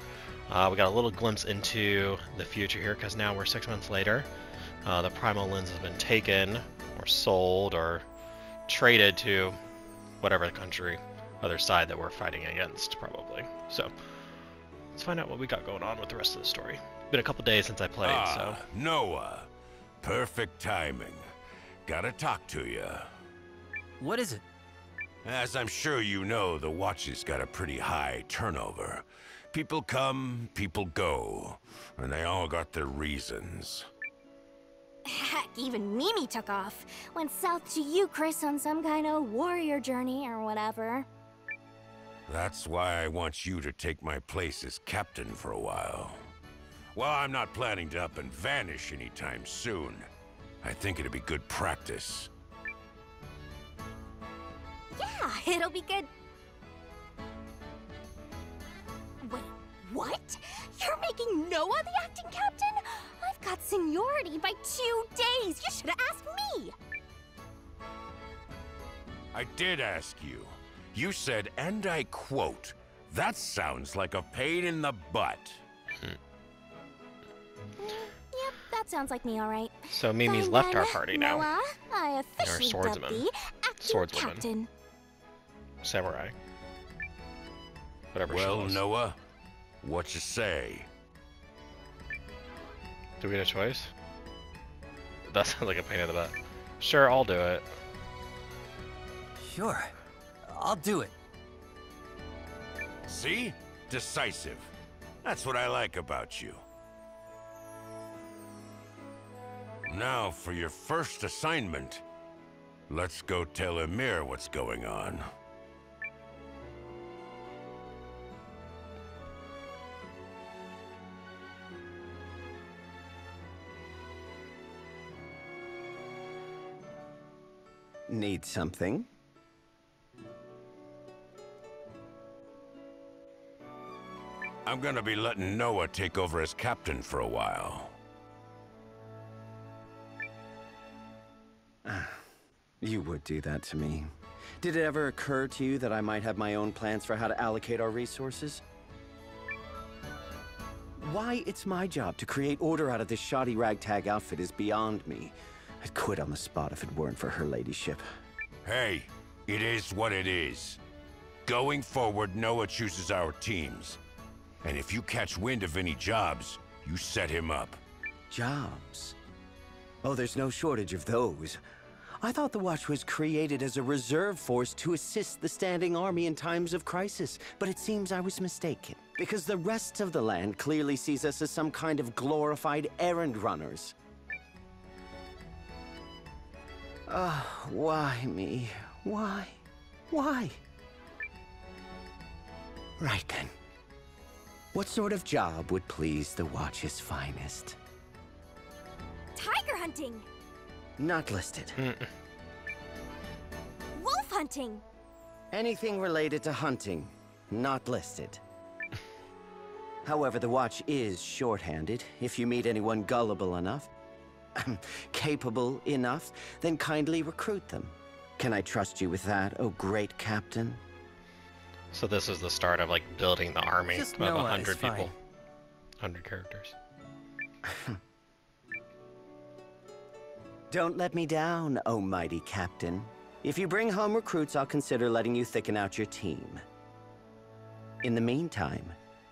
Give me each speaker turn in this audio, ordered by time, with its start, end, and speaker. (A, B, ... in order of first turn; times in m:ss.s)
0:00.5-0:04.3 A
0:04.8-0:08.0 A
0:08.7-0:09.6 A
0:10.2-0:13.9 A
0:14.9-0:18.6 A
0:18.0-0:19.5 B
0:20.0-0:21.3 B
0:21.8-0:23.1 B
0:24.0-0:24.4 C
0:25.2-0:33.9 B
0:35.1-0:41.1 D
0:42.3-0:46.3 B
0:47.0-0:50.1 B
0:50.6-0:52.3 B
0:54.9-0:56.1 D
0:59.2-1:06.7 D
1:09.3-1:15.6 B
1:17.8-1:24.7 D
1:19.9-1:21.5 A
1:22.4-1:23.3 A
1:23.8-1:24.5 A
1:25.8-1:26.4 A
1:28.1-1:28.8 A
1:28.3-1:29.2 B
1:29.8-1:30.9 B
1:33.2-1:33.9 A
1:35.3-1:37.7 A
1:39.4-1:39.9 C
1:40.5-1:41.1 C
1:43.1-1:44.7 B
1:45.2-1:46.6 B
1:49.9-1:52.0 B
1:52.9-1:55.2 B
2:08.1-2:09.1 E
2:14.6-2:17.9 B
2:21.8-2:22.2 E
2:22.8-2:28.6 E
2:31.0-2:38.0 E
2:38.6-2:40.8 B
2:41.5-2:44.0 B
2:44.6-2:47.8 B
2:48.3-2:49.2 E
2:50.0-2:51.6 E
2:52.2-3:04.0 E
3:07.1-3:09.6 E
3:10.1-3:10.6 E
3:13.0-3:13.5 E
3:14.7-3:17.8 E
3:19.4-3:20.2 D
3:21.0-3:21.8 E
3:21.8-3:22.1 A
3:24.0-3:24.8 D
3:25.5-3:28.4 E
3:30.0-3:33.9 E
3:34.6-3:40.8 E
3:41.9-3:45.1 A
3:43.9-3:45.1 C
3:46.0-3:46.8 A
3:47.6-3:48.0 E
3:50.7-3:56.6 E
3:58.0-3:59.0 E